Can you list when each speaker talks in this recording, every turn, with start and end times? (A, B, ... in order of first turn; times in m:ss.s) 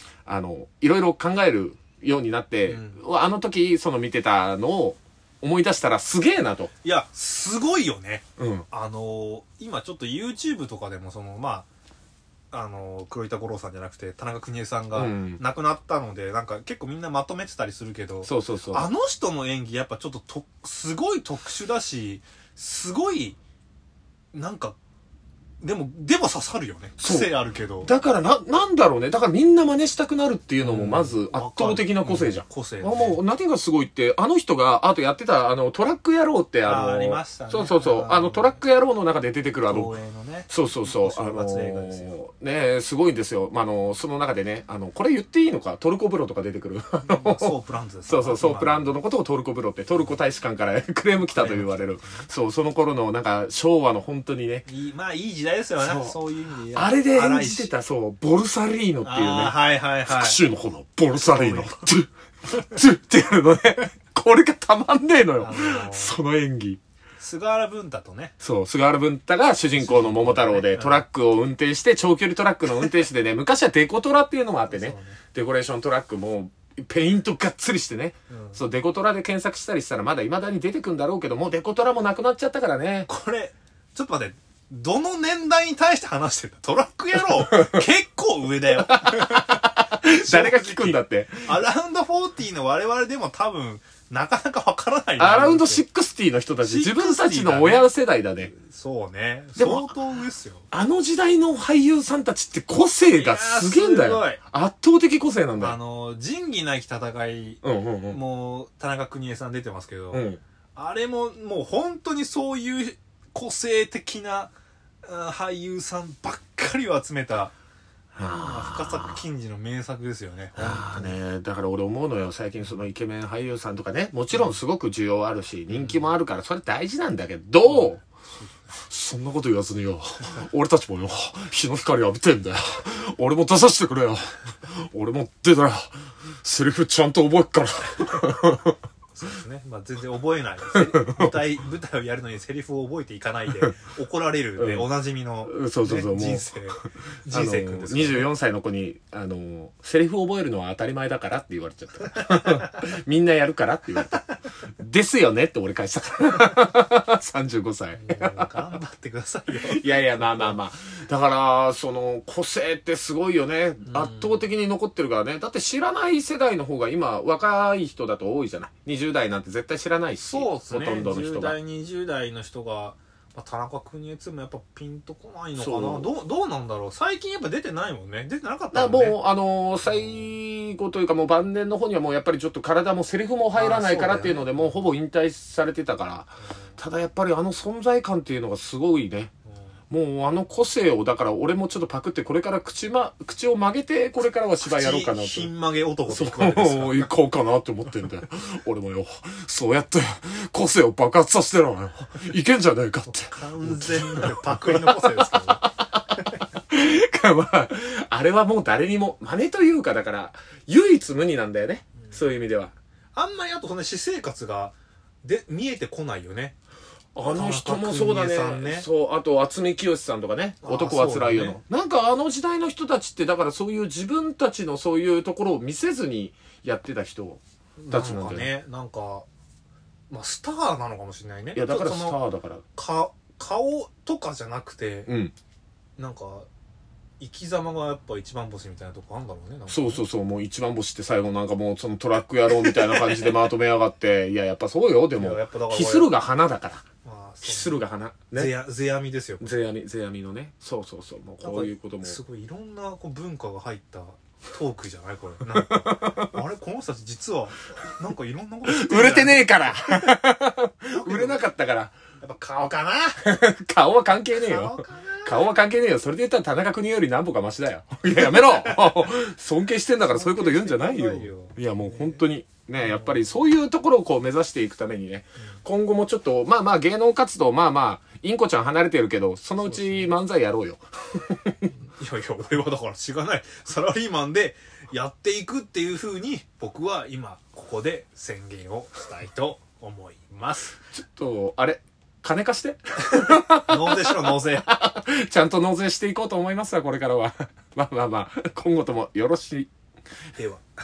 0:00.3-0:06.7 A
0:02.7-0:03.0 B
0:06.8-0:11.7 B
0:08.4-0:08.7 A
0:12.5-0:23.4 B
0:15.0-0:15.4 A
0:18.2-0:18.9 A
0:24.3-0:24.8 B
0:25.6-0:27.9 B
0:27.0-0:27.3 A
0:27.8-0:39.9 A
0:30.6-0:33.2 B
0:36.6-0:38.6 B
0:39.7-0:42.2 B
0:40.5-0:47.5 A
0:47.0-0:49.0 B
0:48.1-0:54.7 A
0:51.2-0:52.2 B
0:54.7-0:57.7 B
0:55.8-0:56.1 A
0:56.7-1:06.8 A
0:59.0-1:00.4 B
1:01.2-1:01.8 B
1:05.4-1:06.2 B
1:07.2-1:08.3 B
1:08.4-1:23.1 A
1:09.8-1:11.0 B
1:14.7-1:15.2 B
1:18.3-1:18.6 B
1:23.1-1:35.8 B
1:27.5-1:27.8 A
1:28.8-1:31.5 A
1:35.2-1:38.5 A
1:36.6-1:40.6 B
1:39.6-1:39.9 A
1:40.7-1:45.8 A
1:43.1-1:44.4 B
1:45.6-1:57.5 B
1:47.6-1:48.2 A
1:50.1-1:50.4 A
1:58.2-1:59.2 A
1:58.2-2:01.2 B
2:00.6-2:08.0 A
2:04.3-2:04.6 B
2:05.7-2:06.1 B
2:07.6-2:08.5 B
2:08.9-2:18.8 A
2:19.1-2:28.3 B
2:20.7-2:21.4 A
2:24.6-2:24.9 A
2:25.4-2:26.5 A
2:27.3-2:34.2 A
2:34.8-2:38.5 A
2:38.0-2:40.6 B
2:39.6-2:51.6 A
2:43.8-2:44.5 B
2:50.2-2:59.2 B
2:55.6-2:56.1 A
2:58.7-3:09.3 A
2:59.8-3:00.3 B
3:03.5-3:04.9 B
3:09.9-3:15.5 A
3:14.6-3:17.1 B
3:16.1-3:32.7 A
3:23.0-3:25.7 B
3:33.2-3:36.6 B
3:37.2-3:48.5 A
3:37.2-3:38.9 B
3:40.6-3:41.6 B
3:47.8-3:49.3 B
3:50.1-3:52.2 B
3:51.5-3:52.6 A
3:52.8-3:55.1 B
3:55.1-3:55.3 A
3:56.0-3:56.5 B
3:57.2-4:00.0 B
3:59.7-4:06.8 A
4:02.6-4:03.4 B
4:05.2-4:06.1 B
4:07.0-4:07.8 B
4:07.4-4:08.5 A
4:08.3-4:09.6 B
4:09.4-4:12.2 A
4:11.4-4:20.2 B
4:15.6-4:16.3 A
4:18.7-4:22.0 A
4:20.9-4:21.4 B
4:22.2-4:23.4 B
4:23.2-4:41.7 A
4:24.4-4:25.5 B
4:28.1-4:29.0 B
4:30.0-4:32.2 B
4:32.8-4:33.2 B
4:39.6-4:40.1 B
4:41.7-4:50.8 B
4:50.9-4:59.7 A
4:53.1-4:54.7 B
5:00.4-5:00.6 B